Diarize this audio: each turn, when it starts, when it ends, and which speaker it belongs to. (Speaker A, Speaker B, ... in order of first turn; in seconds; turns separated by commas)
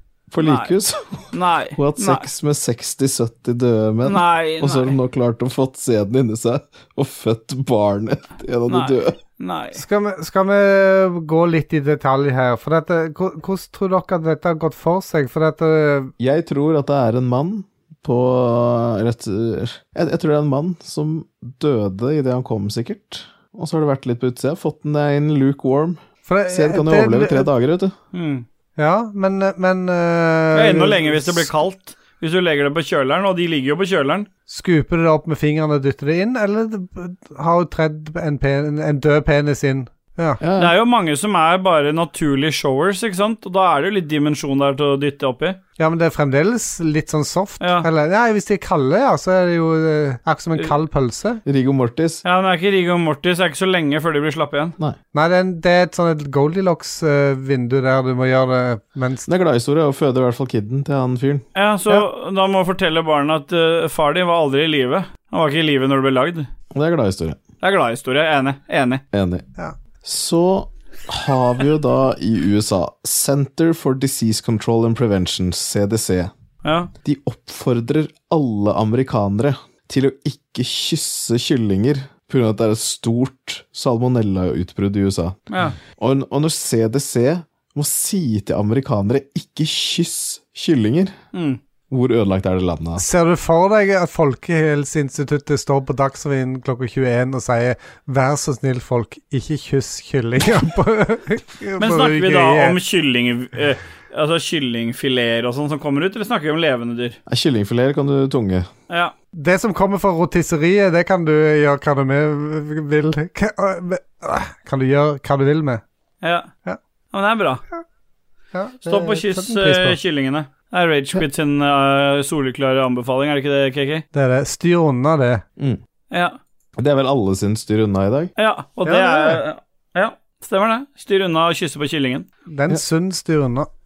Speaker A: 0.3-9.2, Speaker B: 0.4-0.7, Speaker B: 1.3-2.2, Speaker B: 4.0-4.9, Speaker B: 8.7-9.8, Speaker C: 9.7-16.1, Speaker A: 16.2-27.9, Speaker C: 26.2-27.5, Speaker B: 28.1-28.4, Speaker C: 28.8-31.5, Speaker B: 30.5-34.3, Speaker C: 34.5-40.4, Speaker A: 40.4-40.7, Speaker B: 40.6-45.6, Speaker C: 45.8-51.4, Speaker B: 47.6-47.9, Speaker A: 51.4-52.2, Speaker B: 52.2-54.7, Speaker C: 55.1-59.3, Speaker A: 59.3-61.4, Speaker B: 61.5-66.5, Speaker A: 66.7-67.4, Speaker B: 67.6-69.0, Speaker A: 69.1-69.5, Speaker A: 70.0-76.3, Speaker B: 76.6-76.9, Speaker A: 77.0-85.4, Speaker B: 85.5-85.8, Speaker A: 86.0-91.1, Speaker B: 91.3-91.6, Speaker A: 91.9-93.0, Speaker C: 93.0-102.8, Speaker B: 101.8-107.2, Speaker A: 107.3-108.7, Speaker C: 109.3-115.8, Speaker B: 116.2-116.5, Speaker B: 117.1-117.6, Speaker C: 118.5-120.0, Speaker B: 118.8-124.0, Speaker C: 124.1-125.4, Speaker B: 126.1-126.4, Speaker A: 126.8-128.3, Speaker B: 128.4-132.3, Speaker C: 128.8-129.4, Speaker C: 132.5-133.7